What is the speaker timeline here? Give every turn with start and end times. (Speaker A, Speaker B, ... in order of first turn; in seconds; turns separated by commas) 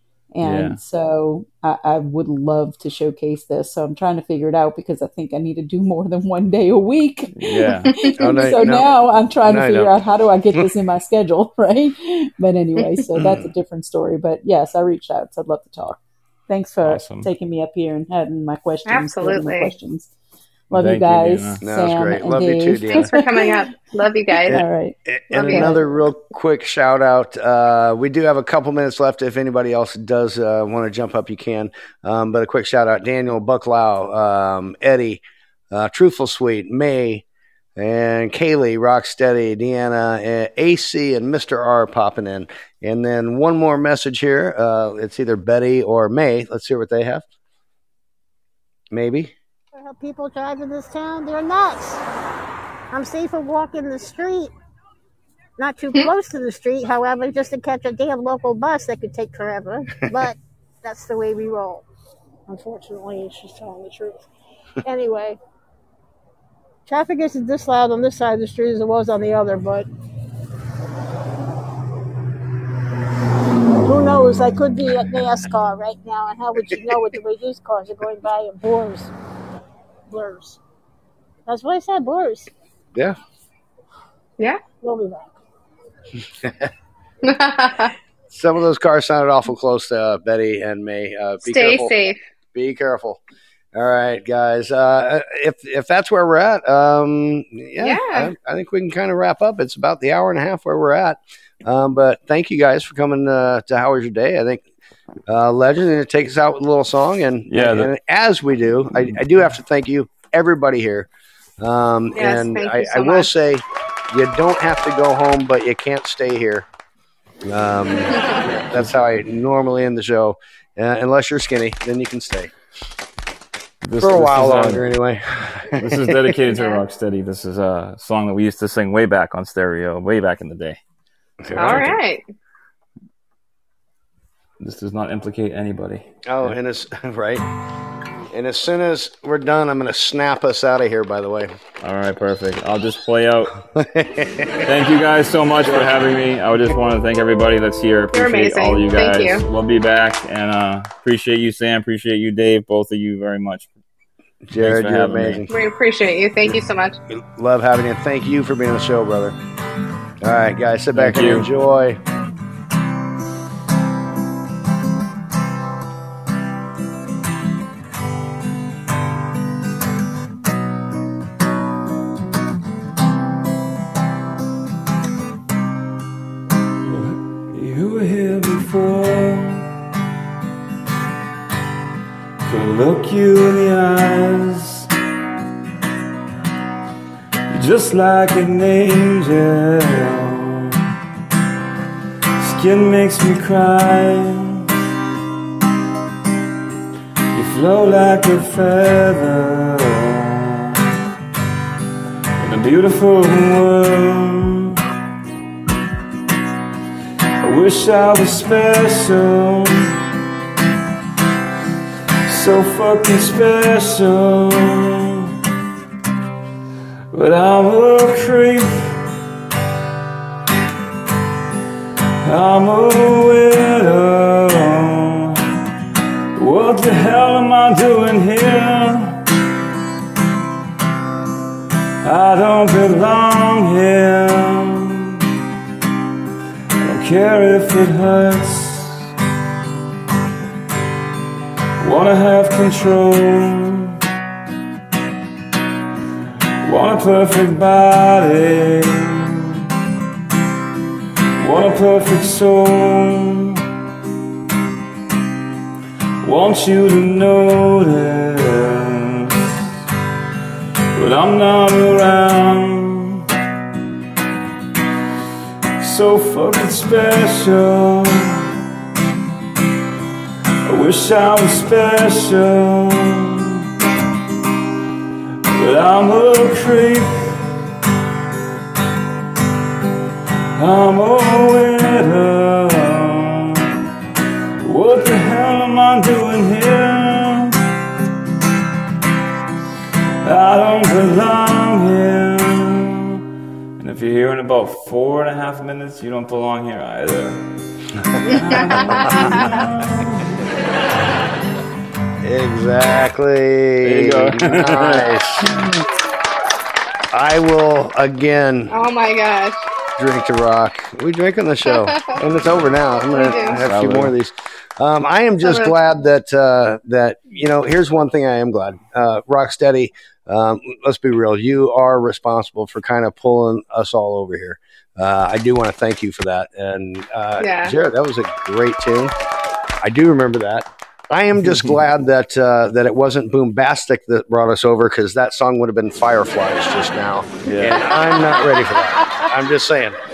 Speaker A: 0.3-20.1, Speaker B: 0.4-0.8, Speaker B: 7.3-8.1, Speaker C: 8.2-8.9, Speaker C: 9.4-10.0, Speaker C: 13.1-13.5, Speaker B: 16.8-17.3, Speaker D: 18.9-19.7, Speaker A: 20.7-23.7, Speaker B: 20.7-21.6, Speaker C: 21.6-23.1, Speaker D: 22.9-24.6, Speaker A: 24.5-25.8, Speaker C: 25.1-37.2, Speaker D: 25.3-25.7, Speaker C: 37.8-47.2, Speaker C: 48.9-49.3, Speaker E: 49.7-52.0, Speaker E: 52.9-54.5, Speaker E: 55.6-61.8, Speaker E: 62.5-64.2, Speaker E: 64.8-65.4, Speaker E: 66.8-69.9, Speaker E: 73.8-79.1, Speaker E: 80.1-80.6, Speaker E: 81.5-82.5, Speaker E: 84.8-85.4, Speaker C: 86.4-86.7, Speaker D: 87.2-87.9, Speaker C: 88.3-91.9, Speaker D: 91.4-92.2, Speaker C: 92.5-93.2, Speaker C: 93.7-104.6, Speaker D: 97.8-98.3, Speaker C: 105.3-111.1, Speaker B: 107.5-107.9, Speaker C: 111.6-116.7, Speaker D: 112.1-113.3, Speaker C: 117.4-122.5, Speaker D: 118.1-118.4, Speaker B: 123.8-124.8, Speaker C: 124.0-126.3, Speaker B: 125.8-130.8, Speaker D: 126.5-126.8, Speaker C: 131.4-131.9, Speaker B: 131.5-131.9, Speaker D: 131.6-132.2, Speaker B: 134.6-136.5, Speaker C: 136.2-137.4, Speaker C: 138.3-141.5, Speaker B: 141.8-143.5, Speaker C: 143.7-144.6, Speaker B: 144.6-153.7, Speaker D: 148.1-149.4, Speaker C: 154.5-155.5, Speaker B: 154.6-155.4, Speaker D: 155.5-157.0, Speaker C: 157.1-159.3, Speaker C: 160.2-162.0, Speaker B: 160.9-161.4, Speaker B: 176.8-179.7, Speaker B: 182.4-184.9, Speaker B: 187.5-190.8, Speaker B: 192.4-194.7, Speaker B: 197.3-200.8, Speaker B: 202.4-204.8, Speaker B: 207.4-210.0, Speaker B: 212.2-215.3, Speaker B: 217.1-219.0, Speaker B: 222.2-225.6, Speaker B: 226.3-229.2, Speaker B: 232.0-235.2, Speaker B: 236.8-239.1, Speaker B: 241.8-244.0, Speaker B: 246.6-249.6, Speaker B: 251.4-253.6, Speaker B: 256.2-259.5, Speaker B: 260.9-263.3, Speaker B: 265.8-268.5, Speaker B: 270.6-273.6, Speaker B: 275.4-277.5, Speaker B: 280.5-283.7, Speaker B: 284.6-287.6, Speaker B: 290.2-293.2, Speaker B: 293.8-297.5, Speaker D: 298.2-299.6, Speaker B: 298.2-300.5, Speaker C: 298.9-299.2, Speaker C: 302.2-305.6, Speaker B: 303.8-305.8, Speaker C: 307.1-308.8, Speaker D: 308.7-309.7, Speaker C: 310.0-329.1, Speaker D: 311.6-312.1, Speaker D: 313.1-313.6, Speaker B: 313.6-314.1, Speaker D: 315.4-315.7, Speaker D: 327.4-327.7, Speaker C: 329.8-340.0, Speaker B: 337.5-337.8, Speaker D: 337.8-339.2